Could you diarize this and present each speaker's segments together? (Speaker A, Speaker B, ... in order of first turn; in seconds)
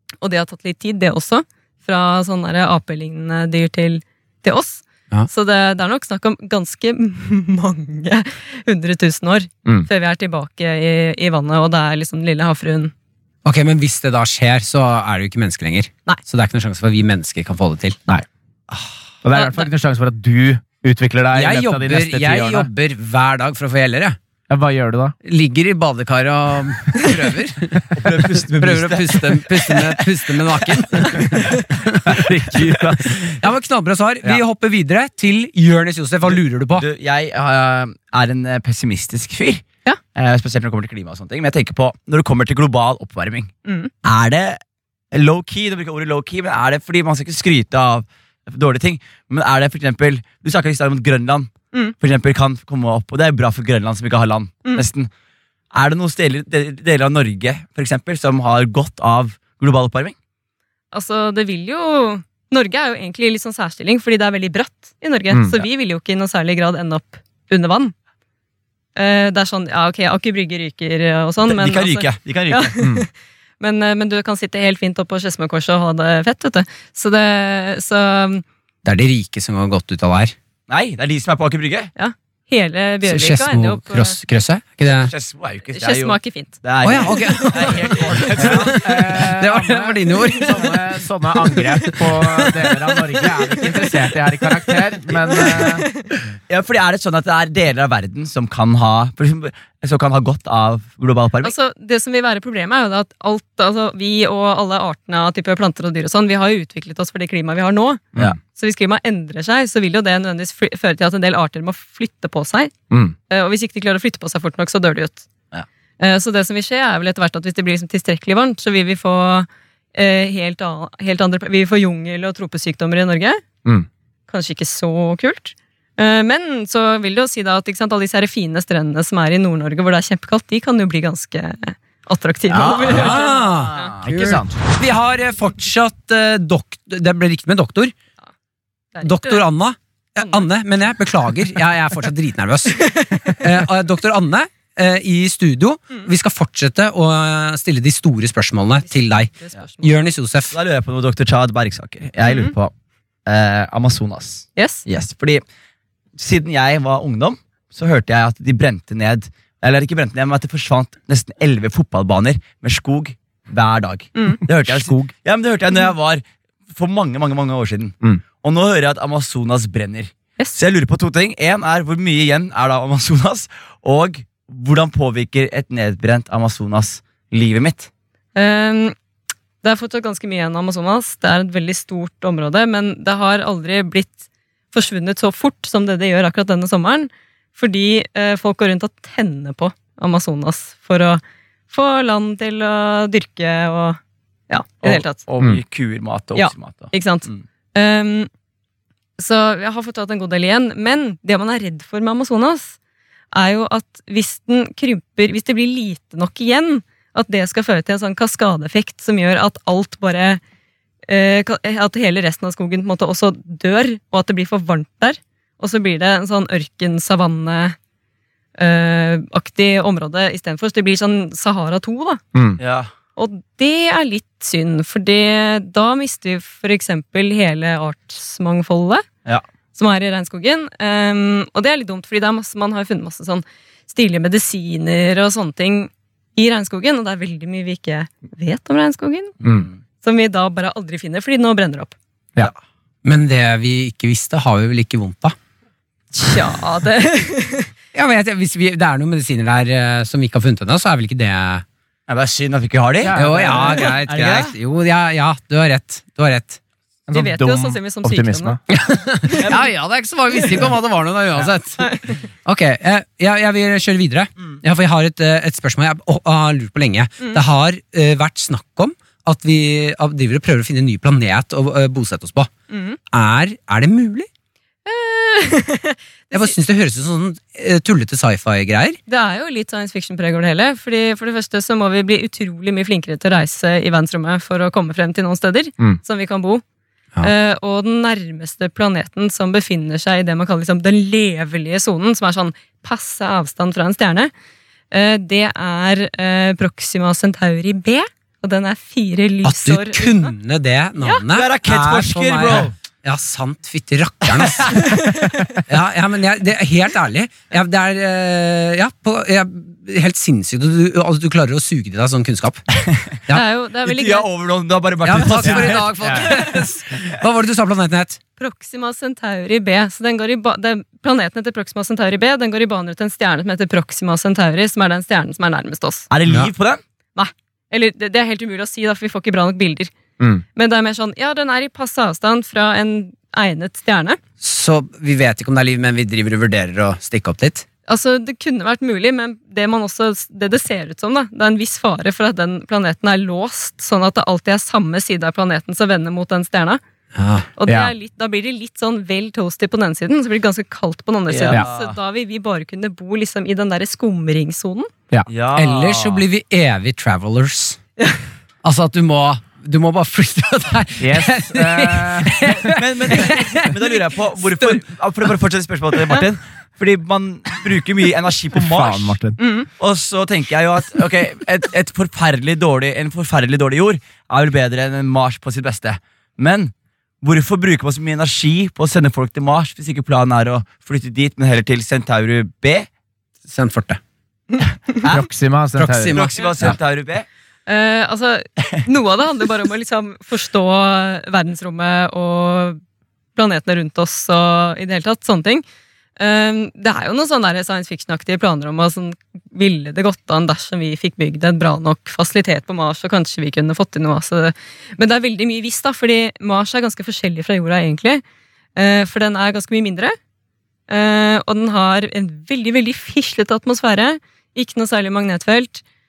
Speaker A: 0.2-12.9, 19.3-19.7, 43.6-43.9, 60.9-67.9, 69.0-73.1, 73.6-78.5, 82.0-84.2, 85.7-86.6, 87.1-88.1, 95.3-96.1, 101.4-112.7, 113.3-115.3, 116.0-123.4, 124.3-133.9, 138.9-139.4, 142.8-143.2, 148.8-150.0, 152.2-152.6, 154.6-154.8, 164.2-164.4, 178.3-178.9, 179.6-184.2, 184.7-195.2, 196.3-198.3, 199.2-202.8, 203.3-210.4, 211.1-217.8, 218.6-222.2, 223.2-229.1, 229.7-239.4, 240.0-241.9, 246.1-247.7, 257.1-258.6, 259.2-259.6, 261.8-262.2, 272.7-273.0, 274.9-276.5, 279.1-286.6, 287.2-294.3, 294.9-300.3, 304.7-305.3, 313.3-314.3, 318.4-326.1, 327.1-329.9, 330.6-334.2, 337.9-346.8, 347.6-354.9, 369.4-369.7, 384.5-385.0, 387.7-392.8, 393.4-395.6, 396.2-408.2, 408.8-410.1, 410.9-415.8
Speaker B: 13.4-18.0, 21.3-24.2, 25.2-27.9, 28.5-32.2, 33.1-36.9, 78.8-80.3, 83.0-85.1, 86.8-90.8, 91.6-92.3, 132.9-137.9, 139.0-142.8, 143.4-150.6, 243.0-245.4, 247.9-251.6, 253.2-256.6, 258.7-261.9, 262.4-272.5, 273.1-274.3, 276.3-279.0, 299.4-304.9, 305.7-312.6, 315.0-318.2, 334.4-337.6, 347.1-347.5, 355.6-357.8, 358.6-363.8, 383.5-384.0, 385.8-386.8
Speaker C: 19.2-22.7, 24.5-25.2, 32.0-33.3, 65.3-65.6, 88.4-95.9, 132.7-133.2, 134.0-134.6, 164.5-165.1, 222.3-222.6, 253.0-253.9, 257.1-258.6, 315.3-316.2, 347.6-347.9, 361.0-362.5, 368.5-369.4, 385.1-386.2
Speaker D: 27.9-30.3, 36.3-43.5, 44.0-44.6, 45.1-55.1, 55.7-60.1, 71.4-72.8, 80.7-81.9, 84.8-88.8, 96.5-101.5, 132.5-133.9, 150.5-152.7, 153.3-155.4, 156.2-177.9, 194.8-197.4, 222.6-222.9, 239.4-239.8, 252.1-254.5, 301.3-302.7, 313.8-316.3, 326.1-326.8, 351.3-352.0, 355.3-356.2, 362.6-369.2, 369.8-382.9, 386.1-387.3